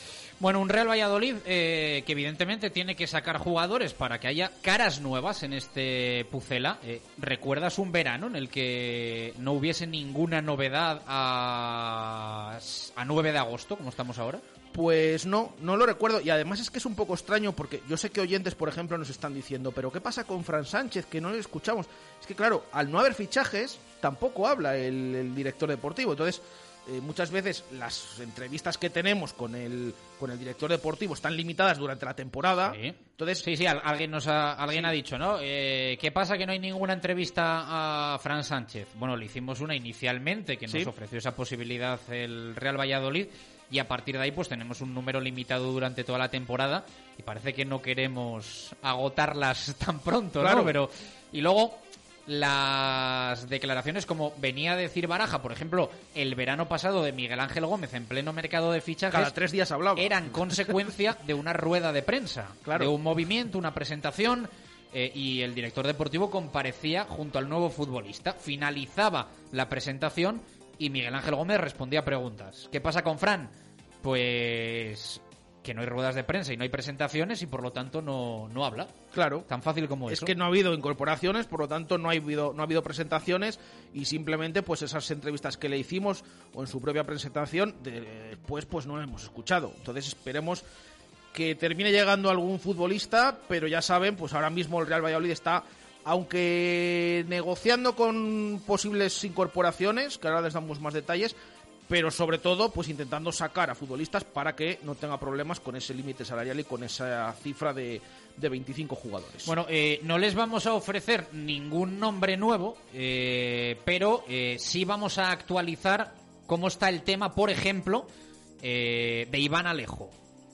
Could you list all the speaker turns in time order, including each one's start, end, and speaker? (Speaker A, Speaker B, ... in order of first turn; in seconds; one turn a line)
Speaker A: 0.4-14.4
Speaker B: 14.7-33.5
Speaker A: 32.7-59.3
Speaker B: 50.4-50.8
Speaker B: 59.1-60.7
Speaker A: 60.0-80.3
Speaker B: 62.6-62.9
Speaker B: 79.1-79.5
Speaker B: 80.1-90.6
Speaker B: 91.3-101.3
Speaker B: 101.9-109.5
Speaker A: 109.5-118.1
Speaker A: 118.6-120.2